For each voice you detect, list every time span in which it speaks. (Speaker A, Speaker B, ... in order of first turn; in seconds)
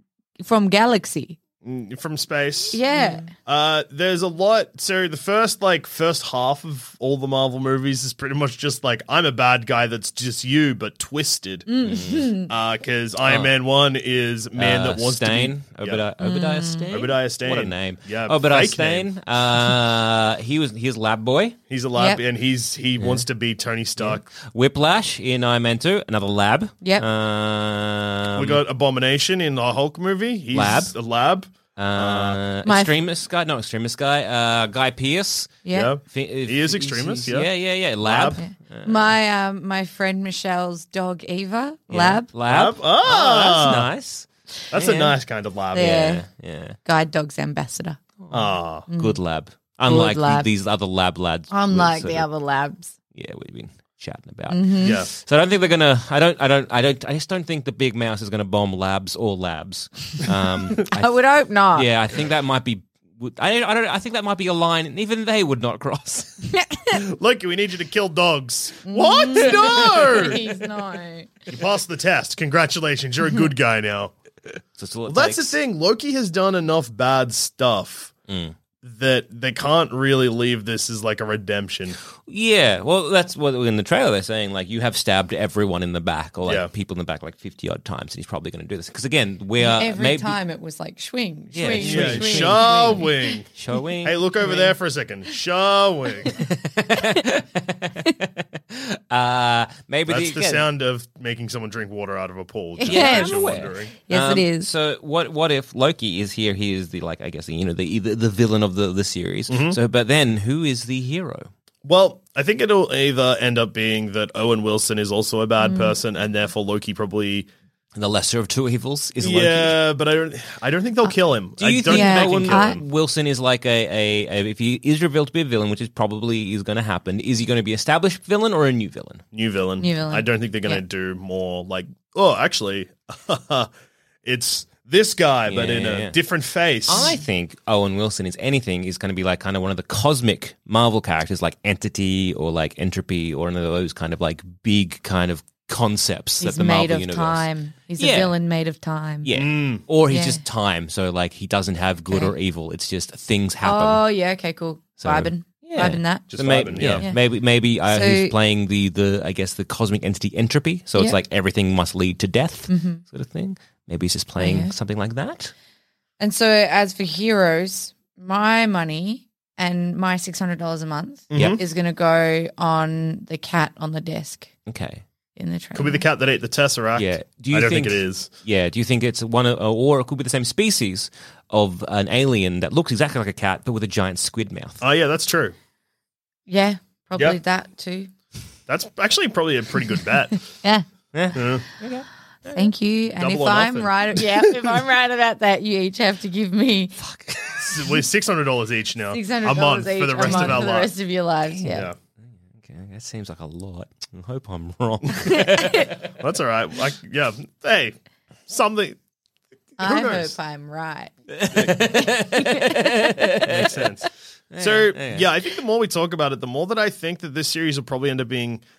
Speaker A: 0.4-1.4, 2.7-3.3, 11.7-12.5, 16.2-16.9, 21.9-22.2, 32.6-32.9, 35.6-35.9, 38.4-42.3, 45.7-46.2, 46.8-48.0, 48.9-49.2, 49.9-50.5, 51.5-52.9, 54.5-55.0, 60.7-61.9, 66.5-67.0, 68.8-71.3, 89.6-93.3, 94.4-94.7, 97.0-97.3, 102.8-104.7, 115.6-116.0, 121.9-122.8, 129.8-130.8, 146.4-149.3, 150.1-150.4, 153.6-157.2, 157.8-158.3, 162.7-163.0, 164.4-164.7, 166.2-174.5, 175.3-176.0, 186.5-188.1, 192.5-196.9, 199.1-201.9, 205.1-205.9, 209.8-211.1, 211.6-213.3
Speaker B: 1.6-11.7, 12.5-16.0, 16.9-19.1, 21.7-24.2, 28.3-32.4, 35.7-37.5, 38.0-38.4, 42.5-43.9, 44.7-46.0, 48.3-48.8, 54.8-55.1, 66.9-70.6, 71.5-74.1, 75.1-78.1, 78.8-82.0, 86.4-86.7, 91.8-93.5, 94.0-96.3, 100.1-103.9, 109.5-109.8, 111.8-117.5, 119.2-122.8, 129.3-133.7, 134.2-137.1, 149.3-149.8, 156.3-157.1, 171.3-171.6, 175.7-178.3, 184.8-185.5, 188.7-190.4, 191.3-191.6, 193.2-194.2, 197.6-200.9, 201.7-201.9, 206.1-209.0, 209.8-210.3, 213.4-218.6
Speaker C: 11.8-12.3, 13.2-13.5, 14.6-21.6, 23.0-23.2, 24.0-28.6, 30.5-30.9, 31.8-39.1, 41.9-45.1, 45.7-46.8, 48.2-52.2, 53.1-66.5, 74.8-75.5, 78.3-78.5, 82.2-90.3, 91.5-94.2, 96.3-100.6, 102.8-111.5, 118.0-119.8, 121.6-129.2, 135.5-136.2, 136.9-147.4, 148.0-148.3, 149.2-154.0, 155.0-165.5, 171.3-171.6, 174.7-175.0, 176.9-184.8, 191.1-192.7, 197.0-197.9, 200.2-200.6, 202.6-206.0, 211.3-213.9, 214.5-215.3